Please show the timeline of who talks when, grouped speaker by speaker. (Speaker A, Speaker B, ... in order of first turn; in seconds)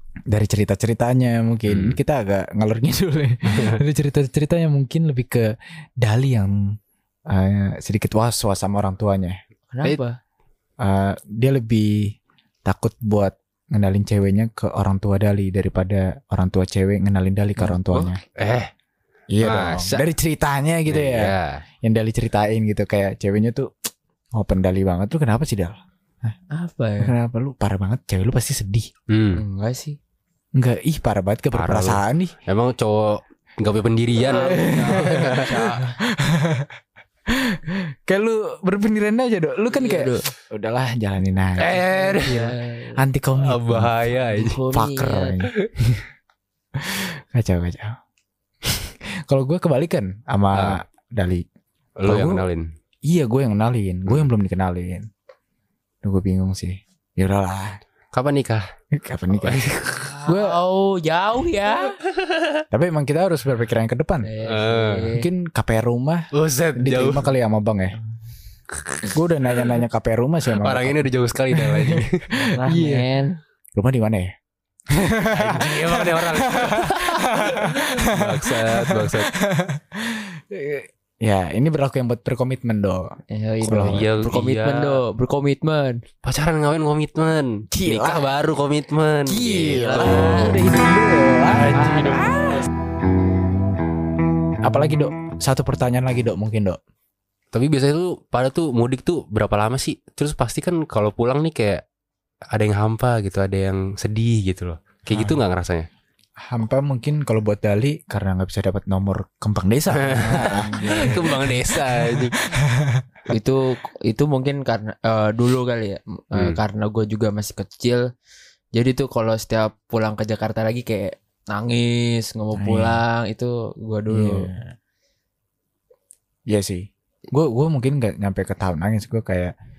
Speaker A: 0.3-6.8, 7.3-9.4, 10.8-18.2, 19.3-23.7, 24.4-26.4, 27.0-28.9, 30.6-32.3, 34.2-36.7, 37.3-42.4, 43.0-44.1, 44.7-46.0, 46.8-48.0, 48.6-51.5, 52.1-52.5, 53.1-55.1, 56.0-57.8, 58.9-60.6, 62.7-64.3, 65.1-68.0, 69.1-73.1, 73.8-74.3, 74.9-84.0, 87.7-88.3, 89.3-92.7, 94.6-96.8, 105.1-105.4, 106.4-113.1, 122.6-123.0, 124.1-124.7, 126.5-129.5
Speaker B: 1.7-2.0, 3.5-3.8, 18.4-18.7, 19.4-20.0, 20.9-21.6, 29.1-29.4, 31.5-35.5, 41.6-42.5, 43.4-44.6, 50.5-50.8, 52.0-52.7, 58.1-58.6, 59.3-60.1, 62.2-62.6, 64.5-65.1, 66.3-67.3, 68.9-69.8, 70.5-72.3, 75.3-79.3, 83.7-85.0, 86.2-90.6, 91.5-92.6, 97.5-101.8, 102.5-105.9, 109.9-112.4
Speaker C: 9.7-10.2, 17.6-18.2, 26.5-27.1, 29.4-30.0, 34.2-36.0, 39.7-40.3, 41.7-43.0, 44.2-45.4, 60.1-62.0, 64.2-65.3, 72.4-73.3, 83.3-86.0, 89.8-90.5, 110.1-111.3, 113.3-118.1, 118.7-124.5